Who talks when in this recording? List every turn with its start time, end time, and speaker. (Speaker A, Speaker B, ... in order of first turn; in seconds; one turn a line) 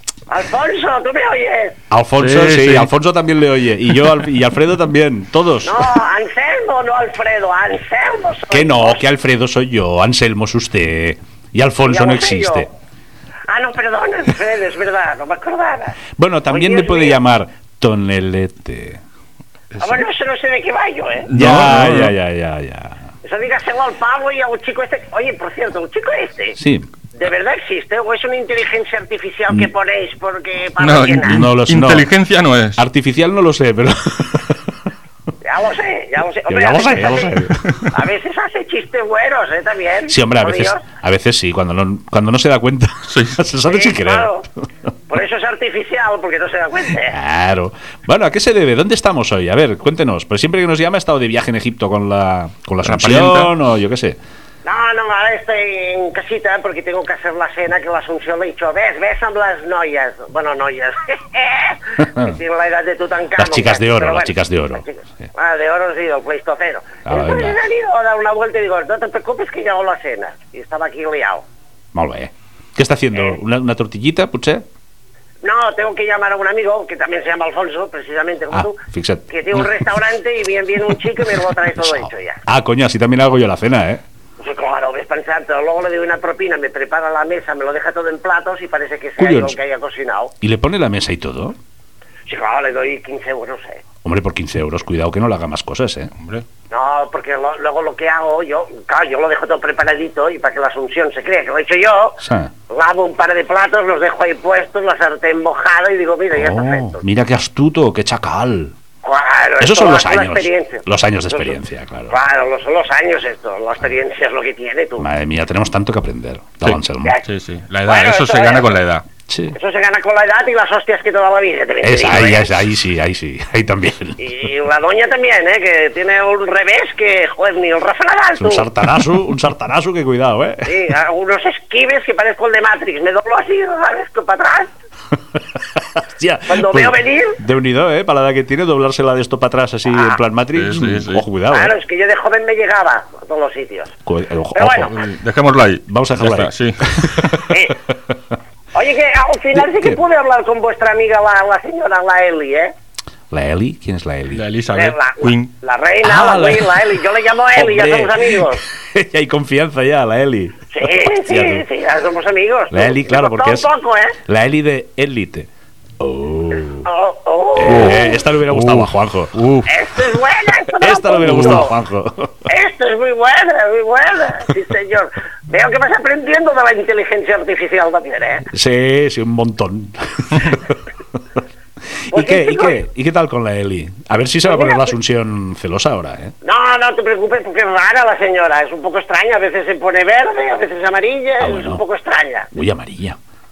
Speaker A: 0.3-1.8
Speaker B: 1.9-5.9
Speaker C: 2.2-2.9
Speaker A: 5.6-9.0
Speaker B: 8.5-12.7
Speaker A: 11.8-12.7
Speaker A: 13.5-17.2
Speaker B: 16.2-19.0
Speaker A: 19.8-21.3
Speaker C: 21.3-22.1
Speaker B: 21.3-23.1
Speaker A: 23.2-26.6
Speaker B: 26.6-26.9
Speaker A: 27.1-31.5
Speaker C: 30.8-32.8
Speaker B: 31.3-32.1
Speaker B: 32.8-34.7
Speaker A: 35.4-40.8
Speaker B: 36.5-37.9
Speaker B: 40.1-44.4
Speaker C: 43.1-43.4
Speaker A: 43.7-44.5
Speaker A: 45.1-47.2
Speaker B: 47.0-54.2
Speaker C: 52.8-53.5
Speaker A: 54.6-71.4
Speaker B: 63.4-65.3
Speaker B: 67.0-67.6
Speaker B: 71.9-74.6
Speaker A: 75.4-82.4
Speaker B: 78.5-79.9
Speaker B: 81.8-84.0
Speaker A: 84.4-90.3
Speaker B: 89.2-89.6
Speaker B: 90.4-91.6
Speaker A: 92.3-93.8
Speaker B: 94.0-96.1
Speaker C: 96.2-96.4
Speaker A: 96.7-107.0
Speaker B: 102.2-102.5
Speaker B: 106.3-108.7
Speaker A: 109.0-111.6
Speaker B: 109.6-112.1
Speaker A: 112.1-115.1
Speaker B: 115.0-117.2
Speaker C: 116.6-119.0
Speaker A: 117.8-118.8
Speaker B: 119.3-119.5
Speaker A: 119.5-122.5
Speaker B: 121.8-124.3
Speaker A: 124.2-128.7
Speaker B: 128.3-130.8
Speaker A: 130.6-134.7
Speaker B: 135.6-141.7
Speaker A: 136.5-137.4
Speaker A: 139.9-140.2
Speaker C: 140.5-141.2
Speaker A: 141.5-143.9
Speaker B: 144.0-145.0
Speaker A: 144.5-144.9
Speaker C: 144.9-147.4
Speaker B: 145.9-148.2
Speaker A: 147.5-147.8
Speaker A: 148.7-152.7
Speaker B: 149.5-150.0
Speaker B: 153.3-154.4
Speaker C: 154.3-155.5
Speaker A: 154.7-158.6
Speaker B: 156.0-157.0
Speaker B: 157.5-161.7
Speaker A: 160.7-164.2
Speaker B: 162.7-163.7
Speaker B: 164.2-166.9
Speaker A: 166.8-168.2
Speaker B: 167.6-169.4
Speaker C: 167.7-169.7
Speaker A: 169.7-171.7
Speaker B: 170.7-172.5
Speaker C: 171.2-171.6
Speaker A: 172.4-178.5
Speaker B: 178.5-180.8
Speaker B: 182.1-186.3
Speaker A: 182.1-182.8
Speaker A: 184.5-184.9
Speaker A: 186.4-192.5
Speaker B: 191.4-191.8
Speaker B: 192.5-193.2